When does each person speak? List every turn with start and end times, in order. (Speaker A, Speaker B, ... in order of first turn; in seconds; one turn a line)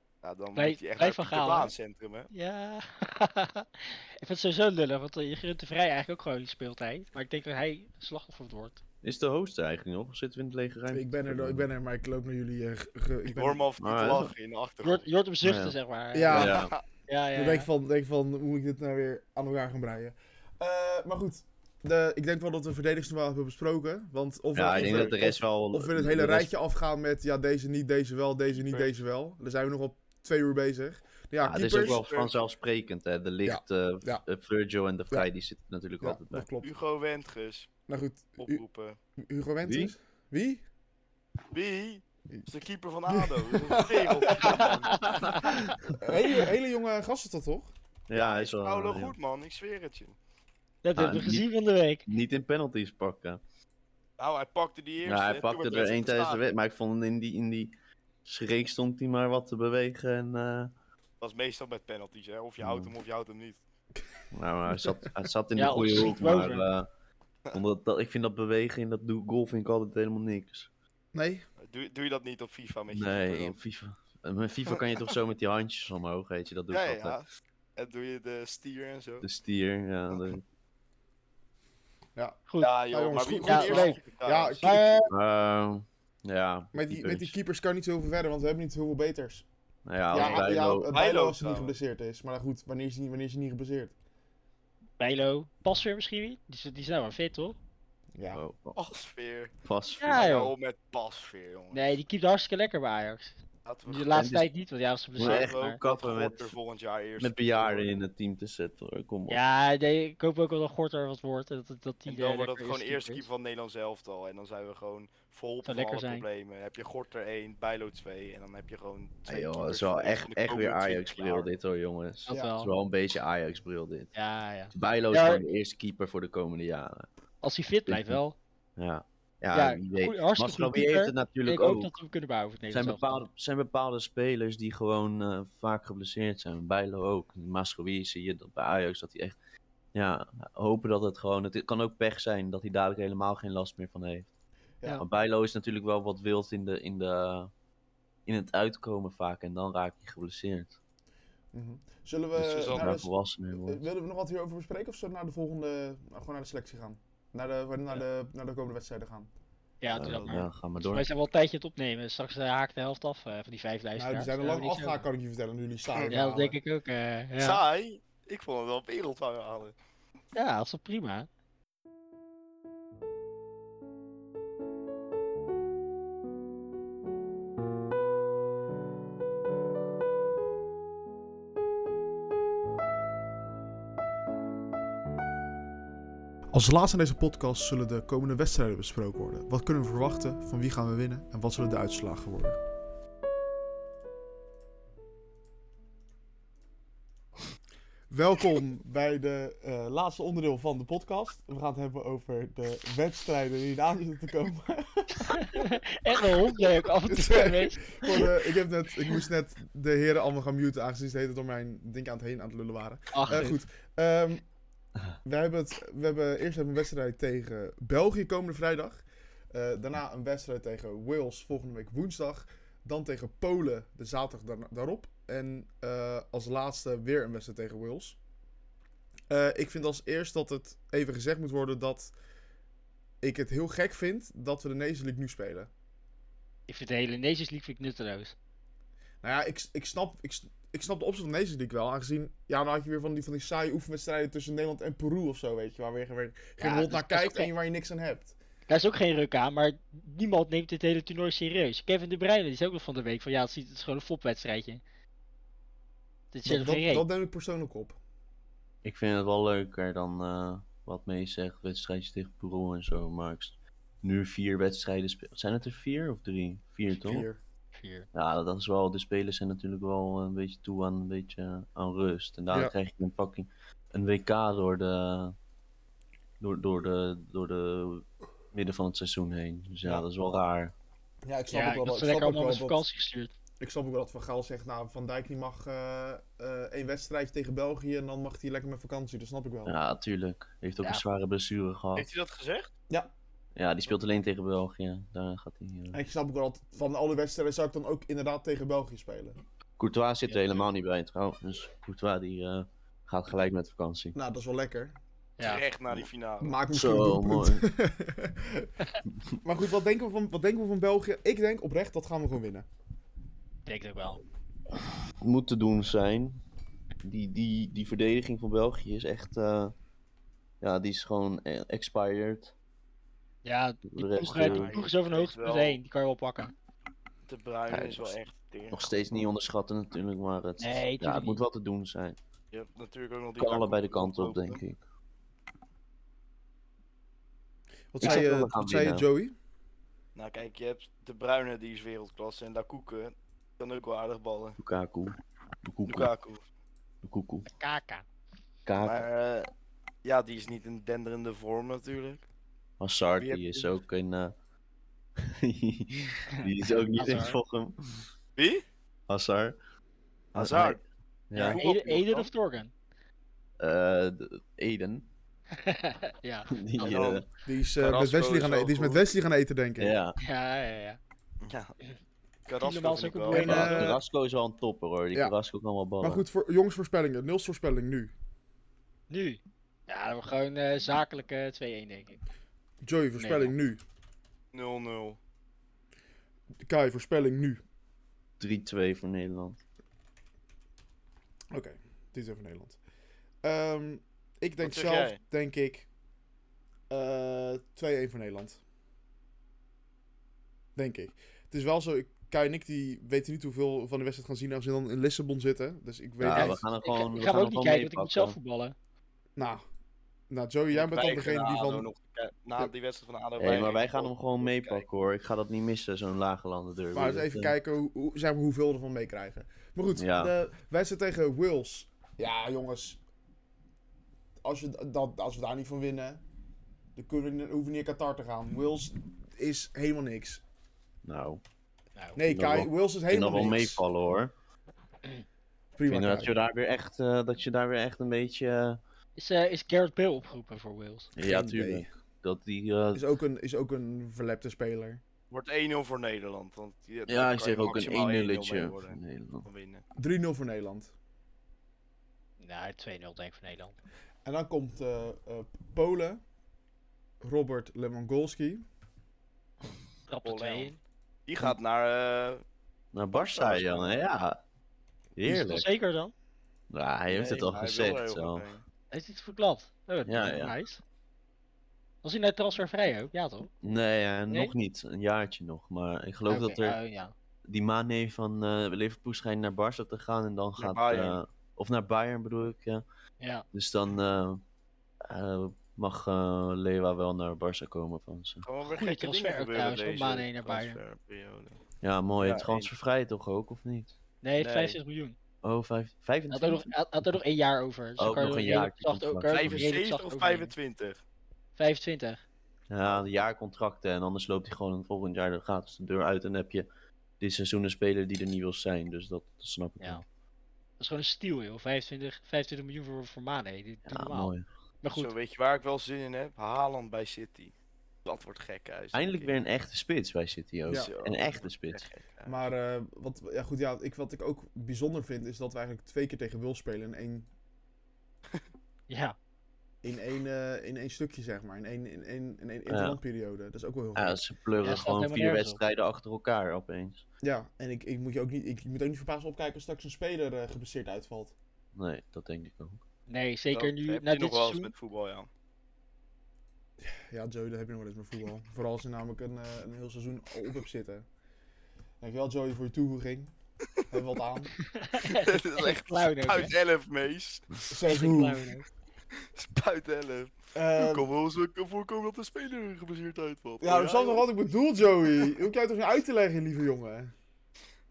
Speaker A: 0.2-2.3
Speaker B: 0.6-1.7
Speaker B: 2.3-8.8
Speaker C: 9.0-11.7
Speaker D: 10.9-13.7
Speaker A: 13.3-15.1
Speaker C: 13.8-14.3
Speaker B: 14.8-17.7
Speaker C: 15.4-15.8
Speaker D: 16.1-16.6
Speaker C: 16.3-16.7
Speaker A: 16.3-16.8
Speaker D: 17.4-32.0
Speaker C: 24.5-26.5
Speaker A: 24.7-25.2
Speaker A: 28.5-29.0
Speaker C: 31.4-36.5
Speaker A: 31.7-32.4
Speaker D: 33.5-34.2
Speaker D: 36.0-36.7
Speaker A: 36.6-37.7
Speaker D: 37.9-38.6
Speaker A: 38.4-39.0
Speaker D: 39.2-40.6
Speaker C: 39.6-39.9
Speaker A: 41.5-45.5
Speaker D: 43.1-44.8
Speaker B: 44.6-45.8
Speaker C: 45.4-45.9
Speaker D: 46.0-47.7
Speaker C: 48.1-49.1
Speaker A: 48.1-50.2
Speaker B: 50.8-52.0
Speaker C: 51.0-51.5
Speaker C: 52.1-53.4
Speaker A: 54.2-56.5
Speaker C: 55.0-57.7
Speaker C: 58.2-60.7
Speaker A: 61.2-63.6
Speaker C: 62.6-62.9
Speaker C: 64.3-66.9
Speaker D: 64.7-65.0
Speaker B: 65.6-66.7
Speaker C: 67.5-70.7
Speaker D: 71.1-71.5
Speaker A: 71.6-73.6
Speaker C: 72.9-77.2
Speaker A: 74.7-75.1
Speaker A: 76.7-77.2
Speaker A: 77.8-79.3
Speaker C: 79.2-80.4
Speaker D: 82.2-85.1
Speaker B: 82.5-84.0
Speaker A: 82.6-84.7
Speaker B: 84.6-85.1
Speaker C: 85.1-87.3
Speaker D: 86.7-89.5
Speaker C: 89.9-90.9
Speaker D: 90.1-93.9
Speaker A: 90.1-91.7
Speaker B: 95.0-97.6
Speaker D: 98.2-98.4
Speaker C: 98.3-98.8
Speaker A: 98.8-99.5
Speaker C: 99.7-100.2
Speaker B: 100.0-100.5
Speaker A: 100.1-102.0
Speaker B: 101.7-103.3
Speaker A: 103.7-104.1
Speaker B: 103.9-105.8
Speaker C: 104.1-104.5
Speaker C: 105.2-106.5
Speaker A: 105.2-107.9
Speaker C: 107.2-109.4
Speaker B: 109.3-113.3
Speaker A: 112.1-121.5
Speaker B: 115.7-116.2
Speaker C: 119.3-124.1
Speaker B: 122.3-122.7
Speaker D: 122.3-122.5
Speaker B: 124.1-125.4
Speaker C: 124.7-127.1
Speaker B: 127.4-128.4
Speaker C: 127.9-128.2
Speaker C: 128.8-131.9
Speaker B: 129.5-133.2
Speaker C: 132.7-139.4
Speaker C: 139.9-144.3
Speaker C: 145.0-147.5
Speaker C: 148.3-150.8
Speaker D: 151.5-159.3
Speaker C: 152.4-153.8
Speaker A: 152.5-152.9
Speaker B: 159.8-165.1
Speaker C: 159.9-161.1
Speaker A: 160.0-160.5
Speaker D: 164.0-166.6
Speaker B: 166.1-167.6
Speaker A: 167.4-169.8
Speaker B: 170.3-171.3
Speaker D: 186.5-192.6
Speaker D: 198.1-205.7
Speaker B: 205.4-208.3
Speaker D: 207.1-214.4
Speaker B: 213.1-213.6
Speaker D: 215.2-228.2
Speaker D: 229.3-232.1
Speaker D: 233.2-235.7
Speaker B: 236.7-238.3
Speaker D: 239.2-248.3
Speaker B: 246.6-247.5
Speaker B: 248.7-254.8
Speaker B: 256.3-257.1
Speaker D: 256.5-258.0
Speaker C: 258.8-267.3
Speaker D: 266.9-267.4
Speaker B: 267.7-268.1
Speaker C: 268.1-275.4
Speaker C: 276.4-280.7
Speaker D: 281.2-282.8
Speaker B: 281.5-283.3
Speaker D: 283.6-289.8
Speaker C: 289.7-292.1
Speaker A: 291.9-292.7
Speaker C: 293.6-296.0
Speaker D: 295.9-299.4
Speaker C: 299.8-304.2
Speaker D: 304.1-304.9
Speaker A: 305.4-306.6
Speaker D: 306.4-308.7
Speaker C: 306.7-307.6
Speaker D: 309.4-312.7
Speaker B: 313.7-314.2
Speaker C: 315.2-316.4
Speaker C: 317.0-319.7
Speaker C: 320.6-322.5
Speaker B: 323.4-326.5
Speaker C: 323.9-324.7
Speaker A: 324.3-325.8
Speaker A: 327.3-328.9
Speaker C: 327.7-328.2
Speaker C: 328.7-332.2
Speaker B: 330.6-331.4
Speaker A: 332.5-334.6
Speaker C: 333.4-334.8
Speaker D: 337.9-339.3
Speaker C: 338.0-339.1
Speaker A: 340.1-344.6
Speaker C: 344.6-346.1
Speaker A: 345.9-346.4
Speaker C: 347.0-347.5
Speaker B: 347.5-348.0
Speaker C: 348.7-349.1
Speaker A: 348.8-349.5
Speaker A: 350.0-352.2
Speaker C: 352.8-354.3
Speaker A: 353.2-353.7
Speaker C: 355.2-358.1
Speaker B: 356.9-357.4
Speaker A: 358.4-358.6
Speaker C: 359.1-359.6
Speaker A: 360.3-360.8
Speaker C: 360.4-360.8
Speaker C: 361.3-361.6
Speaker A: 361.4-362.3
Speaker B: 361.6-362.7
Speaker C: 363.6-365.1
Speaker B: 365.6-367.0
Speaker C: 366.5-367.2
Speaker A: 366.8-367.2
Speaker D: 367.5-370.0
Speaker A: 367.8-369.1
Speaker C: 369.8-370.2
Speaker B: 370.2-371.0
Speaker A: 371.4-371.7
Speaker A: 372.5-373.7
Speaker B: 372.6-373.9
Speaker D: 373.3-374.0
Speaker C: 373.3-376.2
Speaker D: 376.0-378.1
Speaker B: 379.1-382.2
Speaker D: 382.8-383.8
Speaker B: 383.2-383.5
Speaker A: 384.5-385.2
Speaker D: 386.6-387.6
Speaker C: 388.4-389.6
Speaker D: 391.5-392.8
Speaker D: 393.4-395.9
Speaker A: 394.6-395.2
Speaker D: 396.9-398.6
Speaker D: 400.8-406.7
Speaker C: 406.2-408.4
Speaker B: 406.3-408.8
Speaker D: 409.4-409.6
Speaker D: 410.3-411.9
Speaker A: 410.7-414.8
Speaker C: 413.4-417.5
Speaker D: 416.9-423.0
Speaker C: 420.0-420.3
Speaker D: 424.4-426.2
Speaker D: 427.0-430.4
Speaker C: 431.0-431.4
Speaker D: 432.2-433.8
Speaker C: 432.3-434.3
Speaker D: 435.8-436.3
Speaker C: 435.9-438.8
Speaker B: 439.2-441.1
Speaker C: 441.1-443.1
Speaker D: 441.2-441.9
Speaker D: 442.9-445.0
Speaker A: 445.3-449.8
Speaker C: 447.1-449.5
Speaker D: 450.0-450.9
Speaker B: 452.4-453.8
Speaker D: 454.2-456.2
Speaker D: 457.2-458.6
Speaker B: 460.1-460.8
Speaker A: 460.2-460.8
Speaker A: 461.3-462.4
Speaker C: 462.9-464.4
Speaker A: 463.1-464.0
Speaker C: 465.2-465.7
Speaker B: 465.3-466.1
Speaker C: 466.7-468.5
Speaker A: 467.1-468.6
Speaker B: 468.9-470.8
Speaker C: 470.1-470.6
Speaker B: 472.0-473.5
Speaker C: 473.6-476.8
Speaker B: 476.3-477.1
Speaker C: 477.5-482.8
Speaker A: 480.6-481.2
Speaker B: 483.2-483.5
Speaker C: 483.5-484.4
Speaker C: 485.0-488.5
Speaker A: 488.4-491.6
Speaker B: 488.7-490.8
Speaker C: 491.8-493.9
Speaker A: 492.2-492.7
Speaker B: 494.2-495.2
Speaker A: 494.4-494.8
Speaker C: 495.4-496.7
Speaker B: 496.3-500.5
Speaker C: 498.0-499.7
Speaker A: 499.3-501.0
Speaker B: 501.6-502.2
Speaker C: 502.7-506.7
Speaker C: 507.2-510.0
Speaker B: 510.8-515.1
Speaker C: 513.9-514.5
Speaker A: 514.9-517.5
Speaker A: 518.1-519.4
Speaker C: 518.9-521.9
Speaker A: 520.7-522.4
Speaker D: 522.3-527.3
Speaker B: 528.9-529.2
Speaker D: 529.8-534.2
Speaker C: 532.7-533.0
Speaker C: 534.0-537.0
Speaker B: 534.6-535.6
Speaker D: 537.2-541.4
Speaker C: 541.8-542.8
Speaker B: 543.1-544.7
Speaker A: 543.5-545.3
Speaker D: 546.8-551.1
Speaker D: 552.0-553.3
Speaker D: 553.9-554.5
Speaker B: 554.7-556.5
Speaker A: 554.9-557.7
Speaker D: 557.7-558.6
Speaker B: 557.9-558.7
Speaker A: 559.4-564.2
Speaker D: 560.5-561.1
Speaker D: 563.6-567.1